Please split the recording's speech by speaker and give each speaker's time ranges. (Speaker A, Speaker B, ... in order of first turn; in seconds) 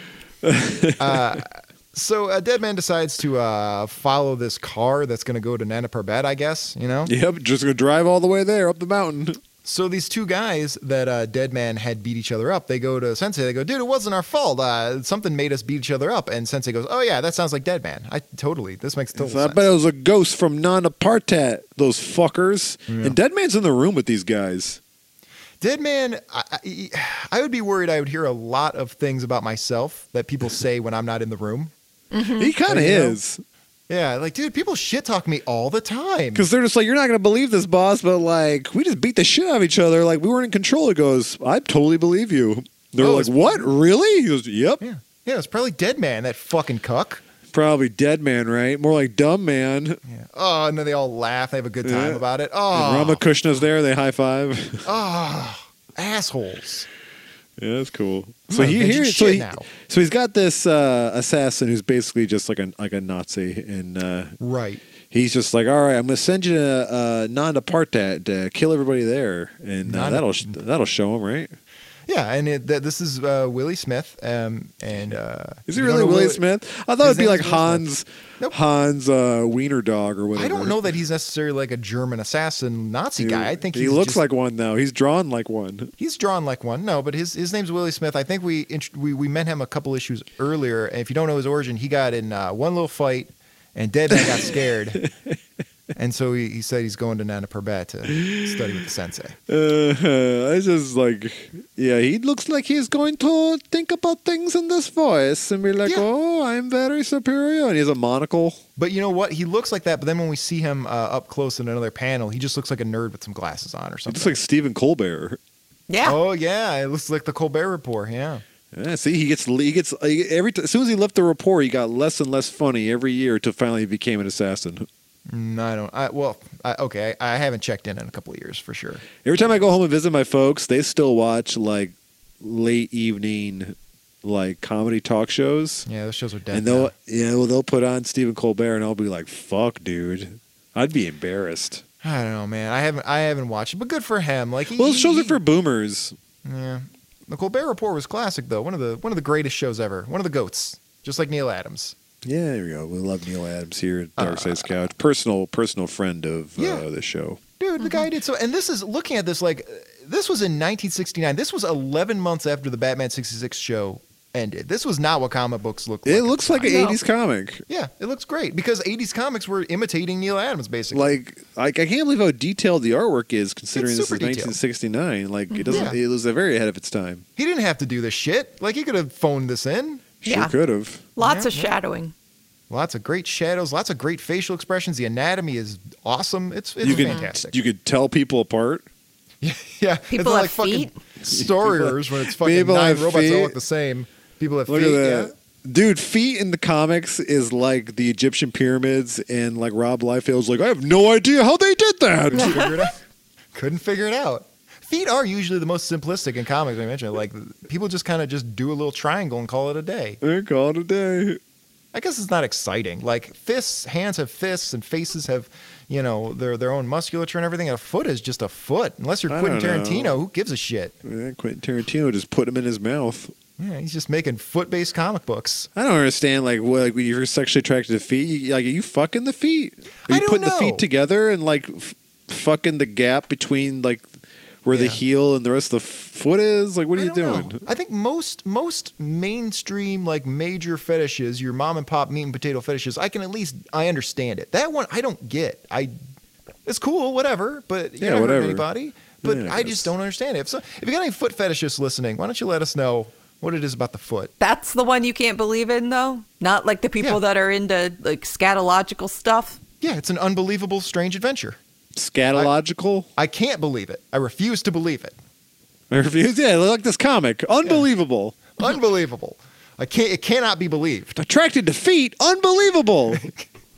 Speaker A: 0.4-1.4, 7.0-9.4, 19.1-24.8, 32.4-33.4, 36.4-44.8, 47.5-50.0, 51.8-52.2, 52.7-54.9, 57.6-64.3, 65.1-71.5, 75.7-80.9, 83.2-85.9, 98.1-98.5, 99.5-108.6, 114.1-115.4, 118.7-124.9, 129.2-135.9, 136.5-141.8, 144.7-146.1, 152.2-157.4, 166.1-167.6, 170.9-177.2, 180.2-181.1, 186.8-188.9, 191.3-193.6, 194.7-202.8, 210.2-211.4, 219.3-220.2, 221.1-223.3, 225.8-234.1, 234.6-237.6, 248.0-248.7, 249.2-249.9, 261.9-263.1, 265.9-268.4, 271.2-273.2
Speaker B: 1.0-7.1, 9.6-19.7, 22.9-23.2, 25.6-31.7, 32.7-33.2, 33.9-36.5, 43.0-43.7, 44.8-47.2, 50.0-53.6, 54.9-56.9, 58.5-59.7, 64.4-64.8, 69.8-70.6, 72.1-76.4, 77.0-77.9, 80.4-84.2, 86.0-95.0, 96.0-99.4, 108.8-114.4, 116.0-118.4, 125.3-129.0, 135.9-136.9, 142.0-145.4, 146.4-151.9, 154.2-154.7, 156.6-156.8, 157.6-166.9, 167.7-171.2, 173.7-174.6, 175.7-176.0, 177.4-180.1, 181.2-181.7, 182.7-187.6, 189.4-195.3, 202.3-203.0, 203.5-210.2, 211.9-221.0, 223.6-225.7, 230.1-230.9, 234.7-235.0, 236.9-245.9, 246.7-254.3, 259.8-261.6, 263.2-265.2, 268.6-271.2, 273.1-273.5
Speaker C: 32.1-32.5, 115.9-116.2, 157.8-158.1, 166.6-167.0, 175.5-175.9, 180.2-180.5, 181.2-182.1, 186.9-187.3, 190.1-190.9, 202.4-202.7, 254.4-259.6